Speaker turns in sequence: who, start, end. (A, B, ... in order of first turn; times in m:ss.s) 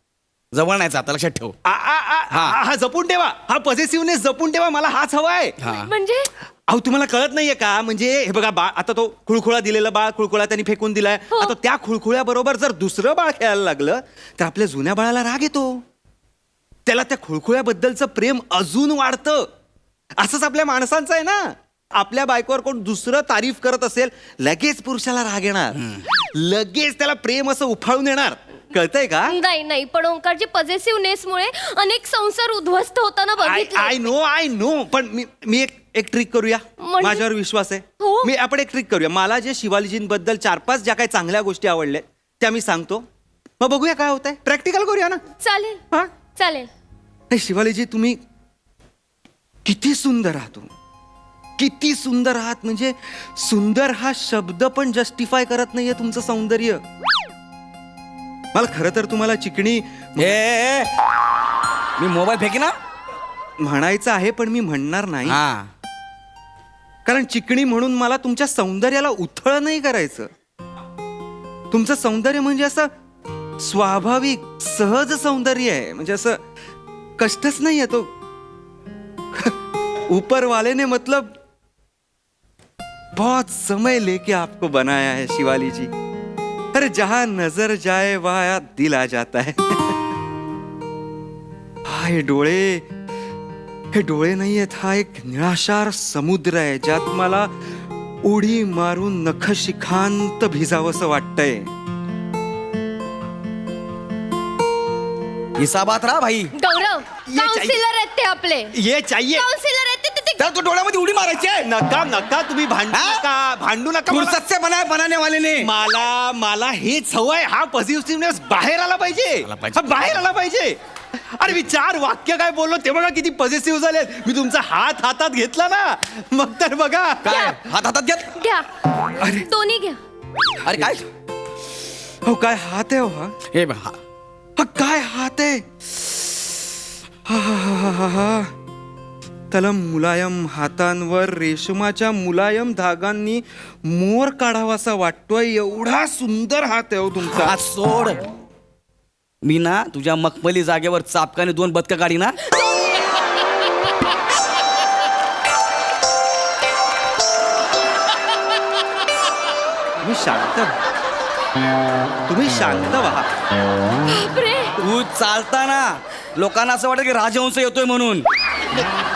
0:00.5-0:01.5 A
0:01.6-0:05.6 B
0:02.3-0:02.6 A
0:05.6-0:05.9 A
0:05.7-0:06.3 C
0:06.7-0:15.8 B
0:16.8-0:19.5 B
0:20.2-0:29.3 B
0:25.8-0:26.0 A
0:29.3-0:34.1 C
0:33.4-0:43.0 B
0:36.8-0:37.2 C
0:38.0-0:38.3 C
0:43.6-0:45.2 B
0:45.4-0:45.8 C
0:46.4-0:46.7 C
0:47.3-0:48.2 B
0:49.6-0:50.7 B
0:51.6-0:56.8 B
0:58.5-1:00.4 B
1:00.2-1:00.9 A
1:02.0-1:02.8 A
1:03.6-1:05.4 B
1:05.2-1:05.7 A
1:07.0-1:10.3 B
1:11.7-1:12.9 B
1:13.6-1:16.4 B
1:17.2-1:18.1 B
1:20.1-1:21.4 B
1:23.2-1:25.9 B
1:26.7-1:30.0 B
1:31.9-1:32.9 B
1:33.9-1:37.5 B
1:38.2-1:41.7 B
1:45.6-1:46.5 A
1:46.5-1:48.7 C
1:47.3-1:47.8 B
1:48.7-1:49.4 B
1:49.4-1:50.5 C
1:50.4-1:51.7 A
1:51.6-1:54.4 B
1:52.9-1:53.2 A
1:54.1-1:55.7 A
1:55.6-2:00.8 B
1:59.4-2:00.2 A
2:01.4-2:07.4 B
2:07.2-2:08.3 A
2:07.2-2:07.6 C
2:08.4-2:10.0 C
2:09.2-2:09.5 B
2:10.6-2:11.0 A
2:12.2-2:13.4 B
2:13.5-2:14.0 A
2:14.6-2:15.6 B
2:17.3-2:18.5 B
2:19.5-2:27.5 B
2:27.3-2:28.2 A
2:29.4-2:32.4 A
2:40.0-2:40.8 B
2:42.3-2:43.3 B
2:44.0-2:44.8 C
2:44.8-2:48.3 A